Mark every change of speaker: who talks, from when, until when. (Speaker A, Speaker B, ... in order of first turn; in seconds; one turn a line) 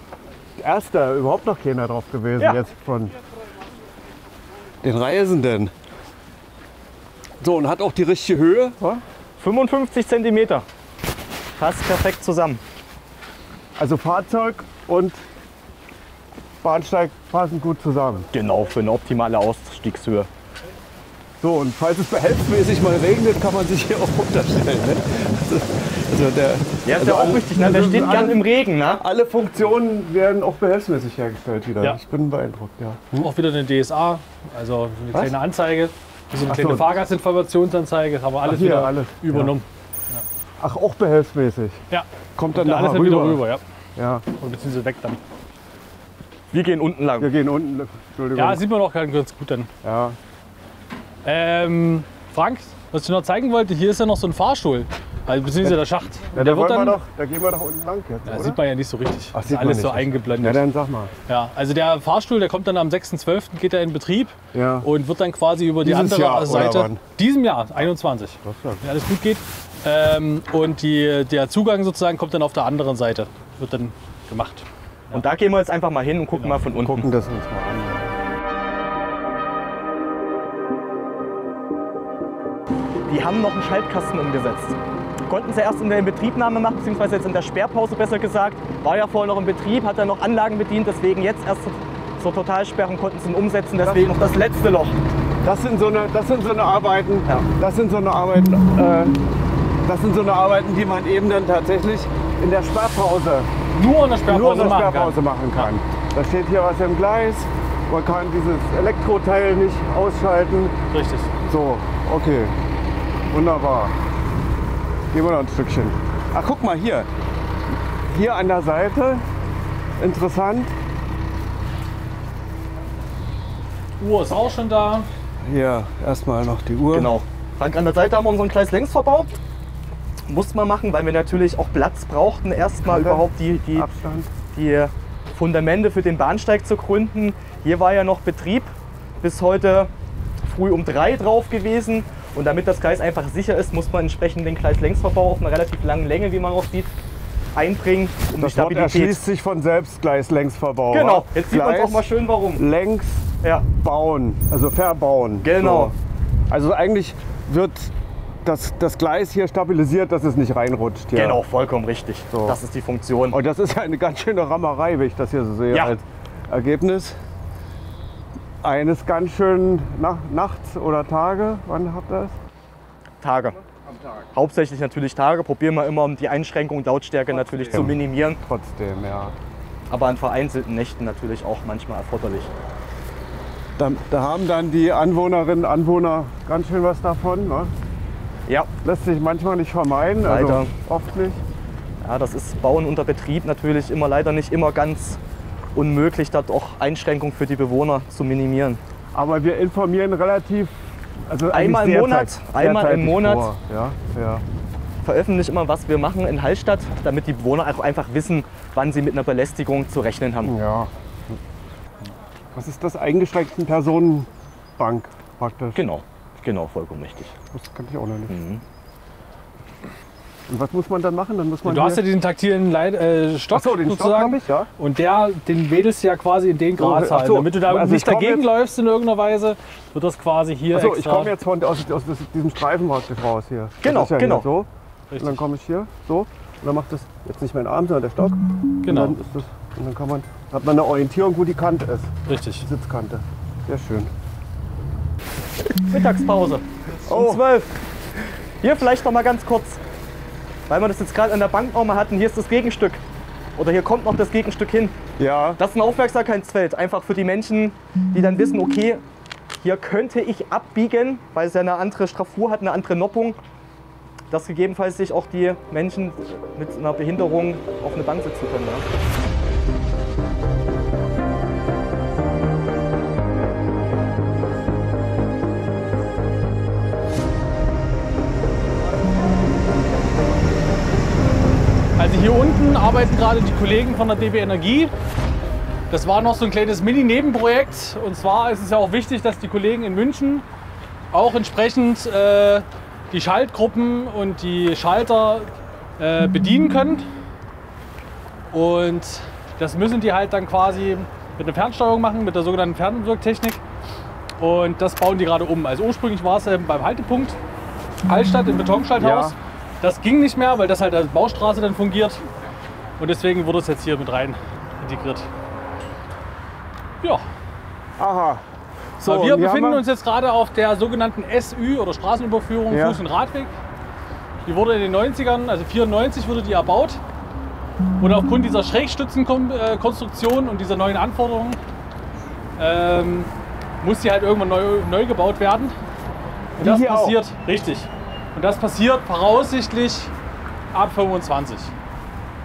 Speaker A: 0.6-3.1
Speaker A: 4.8-5.7
Speaker A: 7.4-9.0
Speaker B: 9.4-10.6
Speaker B: 11.6-12.6
Speaker A: 13.8-15.2
Speaker A: 16.6-18.3
Speaker B: 18.3-20.3
Speaker A: 21.4-28.4
Speaker B: 26.8-29.0
Speaker A: 29.0-33.3
Speaker C: 33.1-40.2
Speaker A: 36.5-37.0
Speaker A: 38.4-39.5
Speaker A: 40.6-41.8
Speaker C: 41.9-43.6
Speaker A: 42.4-43.4
Speaker A: 44.0-44.2
Speaker C: 44.4-45.2
Speaker B: 46.5-47.3
Speaker A: 47.2-48.6
Speaker C: 48.3-49.7
Speaker A: 49.8-50.2
Speaker C: 51.2-57.0
Speaker A: 56.3-58.6
Speaker C: 58.2-60.6
Speaker A: 59.3-61.1
Speaker C: 61.3-75.2
Speaker A: 64.5-64.9
Speaker A: 65.8-67.0
Speaker A: 68.4-68.8
Speaker B: 75.1-77.0
Speaker A: 76.8-78.2
Speaker B: 83.1-95.0
Speaker A: 93.8-94.1
Speaker A: 95.4-99.2
Speaker A: 99.8-103.5
Speaker C: 103.7-105.7
Speaker A: 104.3-110.8
Speaker C: 110.9-111.3
Speaker A: 111.5-112.5
Speaker A: 113.3-114.0
Speaker A: 115.1-117.1
Speaker A: 118.0-119.2
Speaker A: 120.0-120.7
Speaker C: 124.0-125.1
Speaker A: 125.4-127.1
Speaker B: 126.9-129.3
Speaker B: 130.3-133.9
Speaker A: 132.8-134.3
Speaker B: 134.4-139.9
Speaker B: 140.4-146.9
Speaker B: 147.6-149.2
Speaker A: 148.4-155.9
Speaker B: 150.9-152.6
Speaker B: 153.4-153.7
Speaker B: 155.4-155.9
Speaker A: 156.5-161.4
Speaker B: 161.1-163.4
Speaker A: 162.3-162.6
Speaker A: 163.3-167.2
Speaker B: 165.7-166.0
Speaker A: 168.6-172.3
Speaker B: 173.2-173.6
Speaker A: 173.6-174.3
Speaker B: 174.3-178.4
Speaker A: 177.7-179.3
Speaker B: 179.9-182.5
Speaker A: 183.8-187.7
Speaker A: 188.8-191.4
Speaker B: 190.2-190.7
Speaker B: 192.0-195.2
Speaker B: 195.7-198.8
Speaker A: 199.1-204.4
Speaker B: 201.5-203.5
Speaker B: 205.0-210.5
Speaker A: 210.4-211.4
Speaker A: 212.5-215.8
Speaker B: 215.8-217.3
Speaker A: 217.5-218.3
Speaker B: 218.3-218.6
Speaker A: 220.5-222.0
Speaker C: 221.6-231.3
Speaker A: 223.5-224.7
Speaker A: 226.8-228.5
Speaker A: 230.7-244.1
Speaker B: 233.8-234.5
Speaker C: 235.1-235.4
Speaker C: 238.8-239.2
Speaker C: 242.3-242.7
Speaker B: 245.8-247.7
Speaker A: 247.1-247.4
Speaker B: 248.6-249.8
Speaker B: 250.7-253.0
Speaker B: 253.6-255.0
Speaker A: 255.2-255.6
Speaker B: 255.6-259.0
Speaker B: 259.6-263.4
Speaker B: 264.3-268.9
Speaker C: 282.0-284.9
Speaker C: 285.9-290.4
Speaker C: 291.1-297.1
Speaker C: 298.5-303.6
Speaker C: 304.4-307.4
Speaker C: 308.1-312.2
Speaker A: 309.0-309.3
Speaker C: 313.0-315.3
Speaker A: 318.0-318.4
Speaker A: 319.0-319.8
Speaker C: 319.1-323.5
Speaker A: 322.7-323.0
Speaker C: 324.4-327.0
Speaker C: 328.0-331.6
Speaker C: 332.6-333.3
Speaker C: 333.8-335.7
Speaker A: 336.6-337.2
Speaker C: 336.6-340.1
Speaker C: 340.7-341.7